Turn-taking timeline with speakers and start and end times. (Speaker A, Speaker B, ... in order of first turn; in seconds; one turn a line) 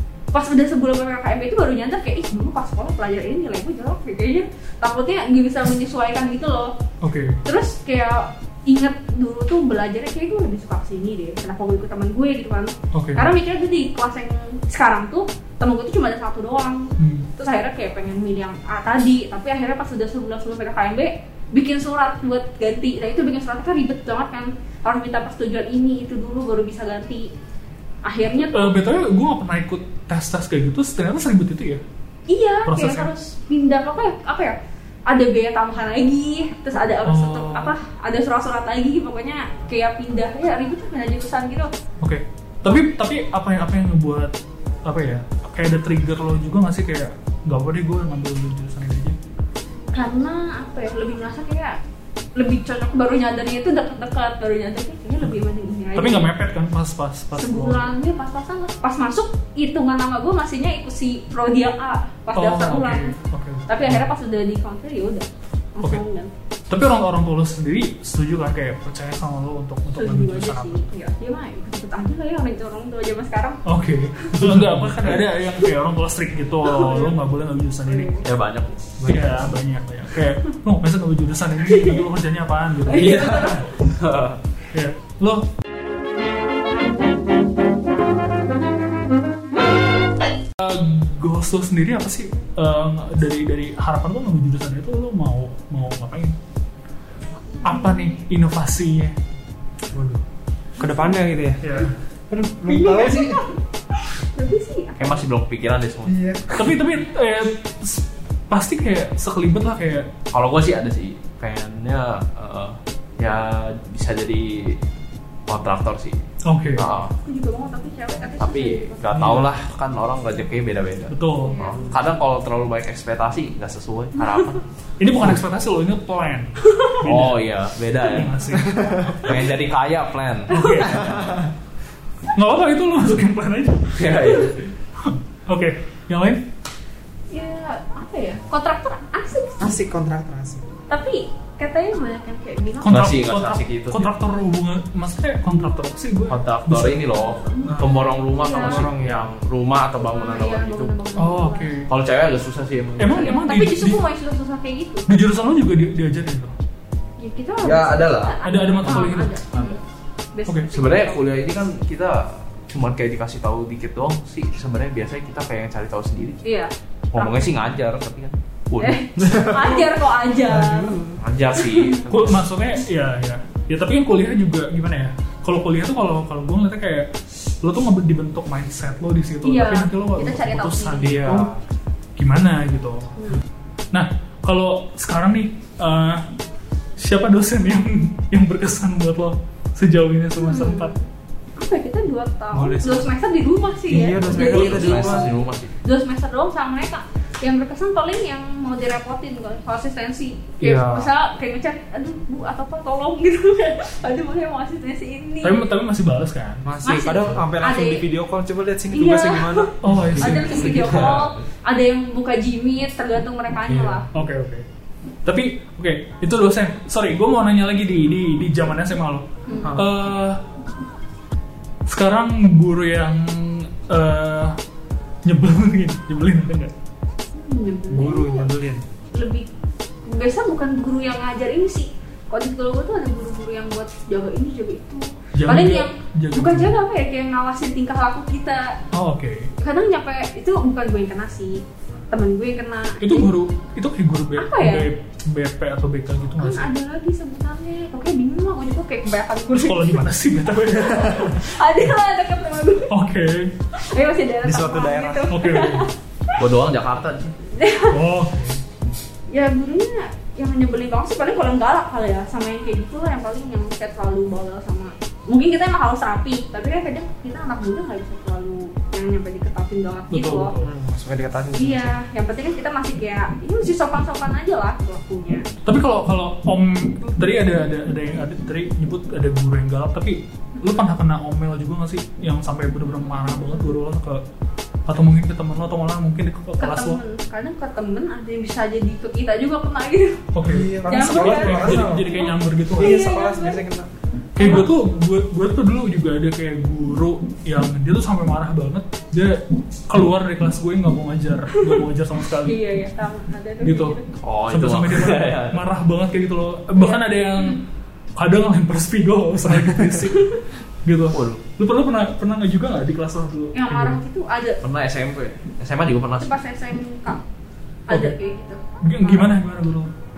Speaker A: 0.3-6.7
Speaker B: 7.0-7.4
Speaker A: 7.5-27.3
Speaker B: 12.9-13.3
Speaker B: 17.0-17.3
Speaker A: 28.1-28.8
Speaker B: 28.5-31.8
Speaker A: 32.3-41.7
Speaker B: 32.7-33.1
Speaker B: 37.0-37.8
Speaker B: 42.0-44.3
Speaker B: 44.9-49.2
Speaker A: 49.9-51.8
Speaker A: 52.4-56.3
Speaker B: 56.0-57.9
Speaker A: 57.4-63.2
Speaker B: 62.4-64.1
Speaker A: 63.7-66.3
Speaker B: 66.7-70.9
Speaker A: 70.0-73.6
Speaker B: 73.7-78.1
Speaker C: 74.5-74.9
Speaker A: 76.7-77.2
Speaker A: 77.9-78.3
Speaker D: 78.2-78.9
Speaker C: 79.0-79.5
Speaker B: 79.0-83.5
Speaker A: 81.7-82.1
Speaker A: 82.8-83.7
Speaker D: 82.9-84.4
Speaker B: 84.7-85.5
Speaker B: 90.6-96.4
Speaker B: 97.6-99.2
Speaker C: 99.9-100.2
Speaker C: 100.8-103.4
Speaker B: 101.6-101.9
Speaker A: 102.7-103.6
Speaker A: 104.2-105.2
Speaker D: 105.0-106.6
Speaker C: 106.1-106.7
Speaker B: 106.5-110.1
Speaker D: 110.3-114.8
Speaker D: 115.5-116.2
Speaker B: 116.5-116.9
Speaker D: 116.8-117.1
Speaker A: 117.2-119.0
Speaker D: 118.4-124.6
Speaker B: 119.1-119.5
Speaker B: 121.1-122.0
Speaker A: 121.4-122.0
Speaker B: 125.0-127.4
Speaker A: 126.7-126.9
Speaker D: 127.0-128.4
Speaker B: 128.0-129.2
Speaker D: 129.2-131.4
Speaker A: 130.5-130.9
Speaker B: 130.5-131.1
Speaker B: 132.3-134.5
Speaker D: 133.9-134.7
Speaker B: 135.0-136.4
Speaker A: 137.3-139.8
Speaker C: 139.6-140.7
Speaker A: 140.9-143.0
Speaker B: 142.8-147.1
Speaker D: 142.8-144.1
Speaker D: 146.3-150.9
Speaker A: 147.2-148.9
Speaker C: 147.7-149.3
Speaker A: 150.0-151.7
Speaker B: 151.2-151.9
Speaker D: 151.9-153.4
Speaker B: 153.0-154.0
Speaker A: 153.1-155.1
Speaker B: 155.1-156.6
Speaker A: 157.2-159.8
Speaker D: 157.6-159.1
Speaker B: 158.4-159.4
Speaker A: 160.3-161.2
Speaker D: 160.7-166.4
Speaker A: 166.4-167.5
Speaker D: 167.1-169.2
Speaker A: 168.8-171.0
Speaker C: 169.2-171.2
Speaker D: 171.2-172.4
Speaker A: 171.6-172.0
Speaker B: 172.1-177.1
Speaker B: 177.6-181.5
Speaker A: 179.4-181.2
Speaker C: 181.0-181.6
Speaker B: 182.2-183.1
Speaker A: 183.2-183.4
Speaker B: 183.9-186.2
Speaker B: 187.0-190.9
Speaker A: 190.4-205.6
Speaker C: 192.5-193.1
Speaker C: 193.9-195.3
Speaker D: 194.2-195.7
Speaker C: 200.6-201.1
Speaker B: 205.4-206.7
Speaker C: 206.6-209.9
Speaker A: 206.8-208.1
Speaker A: 208.9-214.1
Speaker B: 209.8-211.0
Speaker D: 210.2-211.4
Speaker C: 213.7-214.0
Speaker B: 214.1-214.7
Speaker B: 215.2-220.4
Speaker A: 219.5-219.8
Speaker C: 219.6-219.9
Speaker B: 221.9-224.6
Speaker B: 225.2-226.7
Speaker A: 227.3-228.5
Speaker C: 227.9-228.8
Speaker A: 229.2-229.5
Speaker A: 230.1-238.8
Speaker B: 235.3-236.7
Speaker B: 238.9-239.5
Speaker A: 239.6-243.3
Speaker B: 243.0-246.7
Speaker A: 244.4-244.9
Speaker A: 246.4-250.0
Speaker B: 249.5-251.6
Speaker A: 251.0-252.9
Speaker B: 252.9-253.5
Speaker A: 253.8-256.4
Speaker C: 254.4-255.3
Speaker B: 255.3-255.9
Speaker D: 256.4-257.3
Speaker A: 257.5-258.0
Speaker B: 257.9-258.6
Speaker A: 259.3-270.5
Speaker B: 270.1-270.7
Speaker C: 270.6-272.0
Speaker A: 271.6-275.4
Speaker B: 275.6-284.2
Speaker A: 283.1-283.8
Speaker B: 284.9-287.0
Speaker A: 286.6-290.2
Speaker B: 290.3-293.0
Speaker C: 290.4-293.9
Speaker A: 290.9-293.6
Speaker B: 294.4-302.6
Speaker A: 294.4-294.7
Speaker A: 302.4-304.1
Speaker B: 303.6-304.0
Speaker D: 304.2-305.6
Speaker B: 304.5-307.6
Speaker A: 306.8-307.6
Speaker B: 308.2-314.0
Speaker D: 311.1-311.4
Speaker A: 313.6-314.6
Speaker D: 314.6-316.3
Speaker A: 316.2-317.2
Speaker A: 317.9-319.3
Speaker B: 317.9-318.1
Speaker B: 318.8-319.9